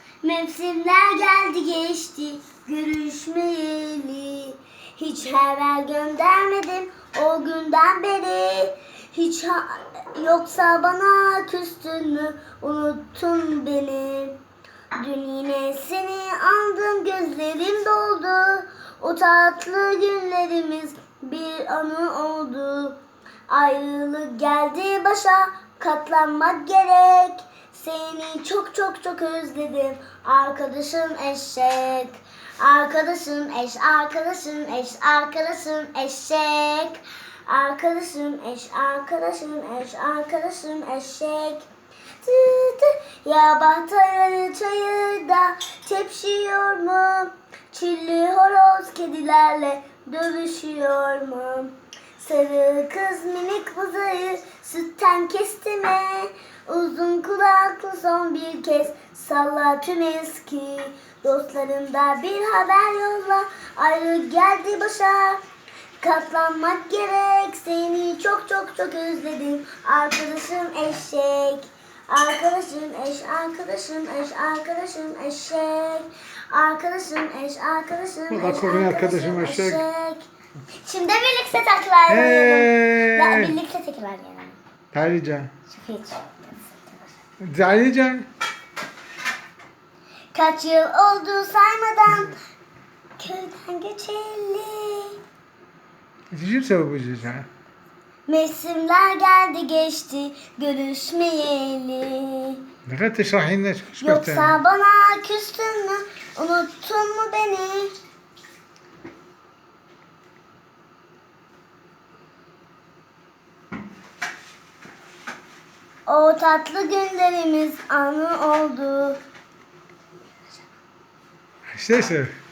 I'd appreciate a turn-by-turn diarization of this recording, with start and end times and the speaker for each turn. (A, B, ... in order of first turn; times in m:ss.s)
0:00.2-0:14.4 A
0:15.0-0:23.0 A
0:23.5-0:41.6 A
0:42.2-1:05.4 A
1:06.0-1:20.2 A
1:18.3-1:19.8 B
1:20.8-1:24.6 A
1:22.1-1:23.6 B
1:24.9-1:25.5 B
1:25.7-1:27.1 A
1:27.4-1:28.3 B
1:30.3-1:32.4 A
1:33.2-1:35.2 A
1:36.3-1:37.5 B
1:38.3-1:42.6 A
1:42.8-1:44.6 B
1:44.0-1:47.9 A
1:56.1-1:59.2 A
2:01.7-2:02.3 B